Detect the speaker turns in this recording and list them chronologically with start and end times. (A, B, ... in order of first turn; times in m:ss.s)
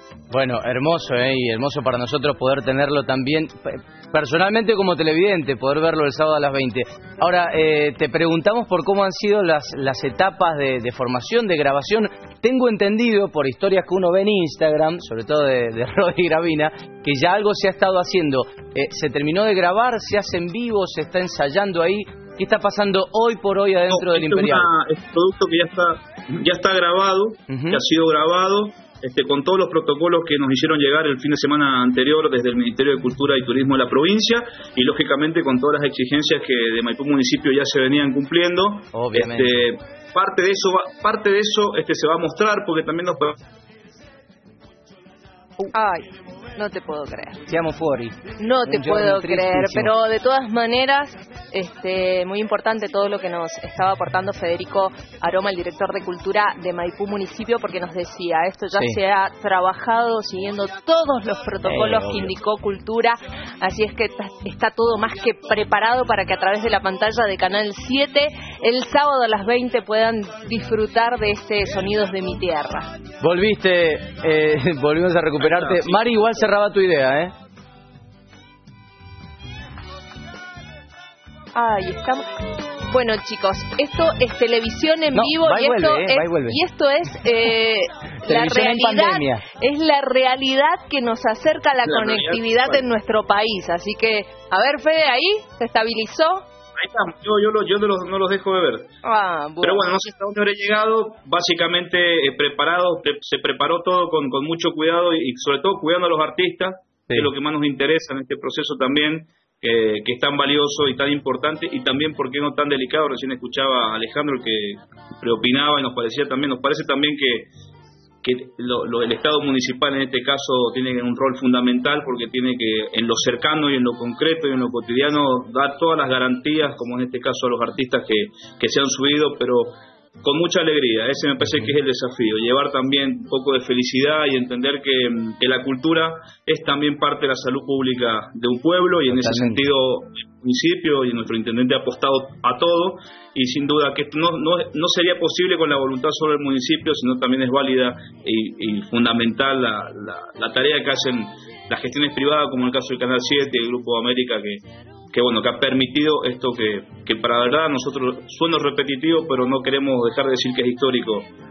0:00.3-0:24.7 A
0:23.9-0:43.4 B
0:27.5-0:27.8 A
0:38.9-0:39.6 A
0:45.7-0:47.4 C
0:47.5-0:49.9 A
0:48.4-1:12.9 C
1:01.6-1:02.3 A
1:13.2-1:17.3 A
1:15.4-1:16.5 B
1:21.5-1:36.4 C
1:25.1-1:26.6 A
1:28.2-1:29.4 A
1:31.8-1:32.8 B
1:36.8-1:38.9 B
1:39.0-1:39.9 C
1:39.6-1:57.5 B
1:58.2-2:41.3 B
2:19.1-2:19.6 A